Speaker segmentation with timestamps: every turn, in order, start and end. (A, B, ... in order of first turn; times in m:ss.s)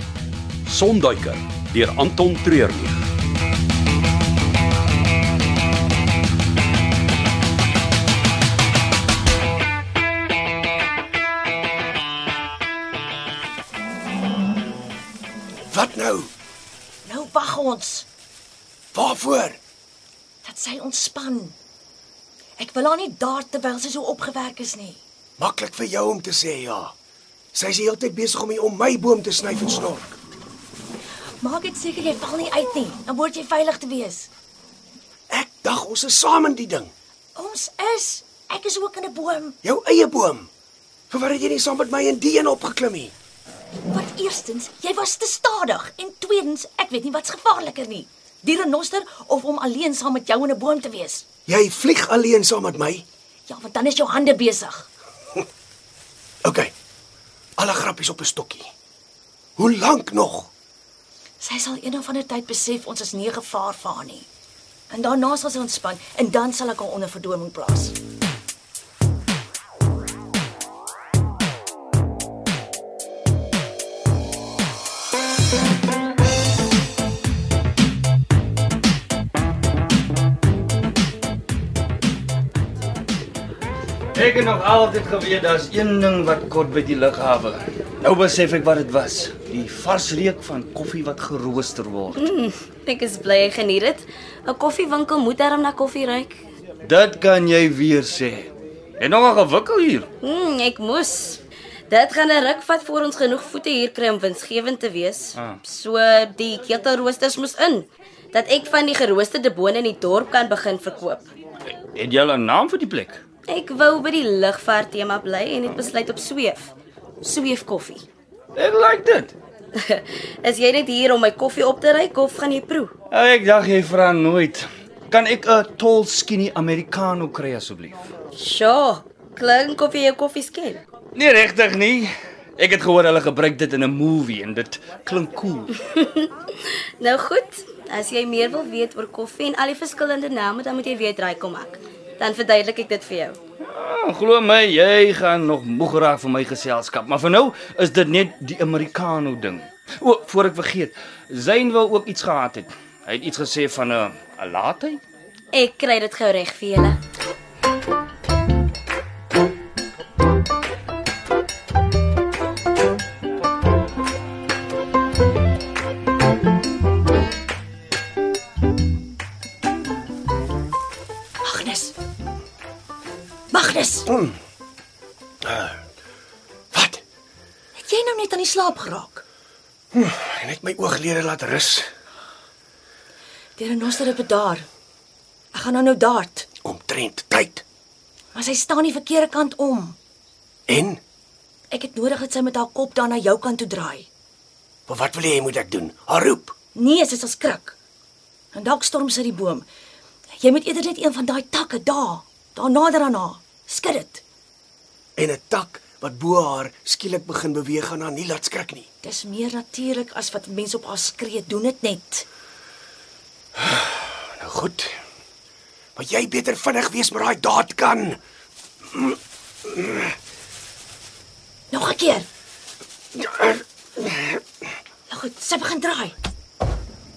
0:00.6-0:03.0 A
0:15.8-0:16.3 B
0:17.0-0:18.1 C
0:19.0-0:19.6 B
0:20.4-0:21.6 C
0:22.6-0:25.0 C
0:25.4-0:26.9 B
0:27.6-0:30.0 B
0:31.4-0:34.3 C
0:35.3-0:36.9 B
0:37.3-0:39.6 C
0:39.6-0:40.5 B
0:41.1-0:43.1 B
0:43.9-0:51.2 C
0:51.5-0:53.0 B
0:53.5-0:54.9 C
0:56.4-0:56.7 B
0:57.6-0:58.6 B
0:59.6-1:00.5 B
1:01.4-1:04.3 C
1:04.9-1:07.9 C
1:24.1-1:32.3 D
1:32.2-1:36.4 E
1:36.8-1:40.1 D
1:40.2-1:51.3 E
1:51.9-1:53.2 D
1:53.5-1:56.7 E
1:57.2-1:58.0 E
1:58.6-1:59.3 D
1:59.8-2:02.9 E
2:03.1-2:08.1 D
2:08.3-2:10.8 E
2:11.1-2:15.7 D
2:15.8-2:16.3 E
2:17.0-2:23.4 E
2:23.6-2:35.0 D
2:35.5-2:37.0 E
2:51.4-2:51.9 C
2:53.5-2:54.1 C
2:55.5-2:55.8 B
2:57.7-2:59.2 C
2:59.9-3:01.8 B
3:03.6-3:04.7 C
3:05.5-3:06.5 C
3:06.6-3:07.6 B
3:08.3-3:10.0 C
3:10.7-3:11.0 B
3:11.7-3:14.1 C
3:14.9-3:16.5 B
3:16.7-3:17.8 C
3:18.5-3:19.7 C
3:20.4-3:24.2 C
3:25.2-3:28.8 B
3:29.0-3:32.2 C
3:34.4-3:34.8 B
3:36.0-3:38.2 B
3:41.7-3:42.3 C
3:45.1-3:46.1 C